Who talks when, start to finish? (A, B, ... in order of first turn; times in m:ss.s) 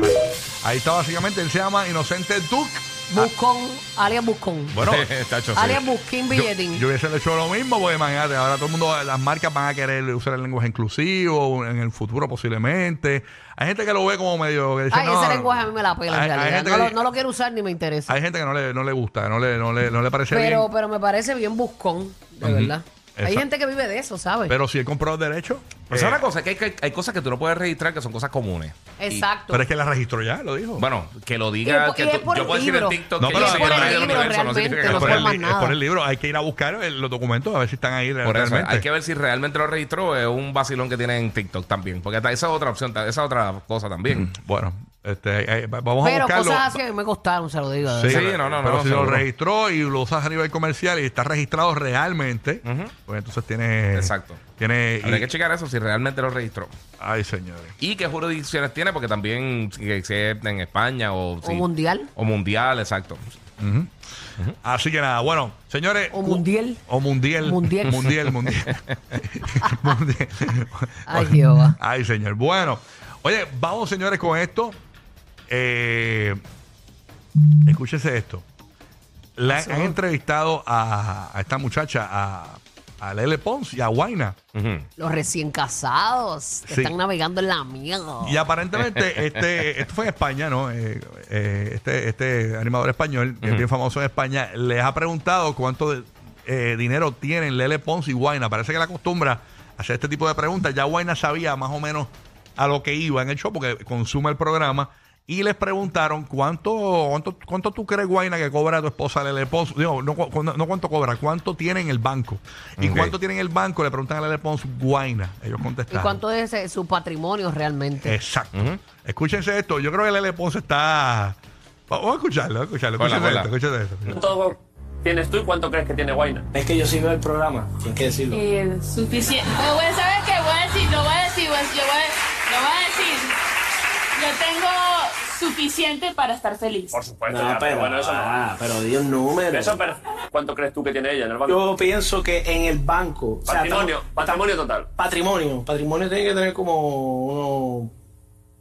0:00.6-0:03.3 A
0:03.1-0:04.8 B
0:04.7-0:05.1 A
0:04.8-0:05.8 C
0:05.5-0:06.8 B
0:06.3-0:17.0 A
0:14.9-0:18.2 B
0:18.1-0:20.7 A
0:20.3-0:24.6 B
0:22.4-0:23.4 A
0:24.5-0:26.2 A
0:25.9-0:29.3 C
0:29.0-0:29.7 B
0:29.5-0:30.9 A
0:30.8-0:35.3 C
0:31.6-0:35.8 B
0:33.2-0:34.3 A
0:34.8-0:38.9 A
0:38.2-0:44.3 C
0:44.1-0:46.8 A
0:46.0-0:48.3 B
0:47.9-0:55.3 A
0:48.1-0:49.2 C
0:52.6-0:52.9 C
0:53.9-0:54.4 C
0:55.0-0:56.7 C
0:57.0-0:57.7 A
0:57.8-1:03.3 C
1:01.4-1:02.1 B
1:03.6-1:03.9 A
1:04.6-1:14.8 A
1:06.1-1:06.8 B
1:07.4-1:08.0 B
1:08.0-1:08.8 C
1:11.1-1:11.8 B
1:15.5-1:16.4 A
1:17.7-1:18.4 A
1:19.4-1:24.4 A
1:19.5-1:19.9 B
1:24.6-1:24.9 C
1:25.0-1:28.4 B
1:26.7-1:27.0 A
1:28.2-1:56.2 A
1:28.9-1:29.4 C
1:33.4-1:33.7 C
1:52.8-1:53.2 C
1:55.9-1:58.2 B
1:58.0-2:01.4 A
1:58.5-1:58.8 C
2:01.9-2:04.2 A
2:03.0-2:03.5 C
2:04.1-2:06.4 D
2:06.5-2:08.4 E
2:08.3-2:13.3 F
2:14.2-2:17.0 F
2:16.9-2:18.5 D
2:17.3-2:19.8 E
2:19.5-2:21.7 D
2:21.5-2:27.9 E
2:23.5-2:24.9 D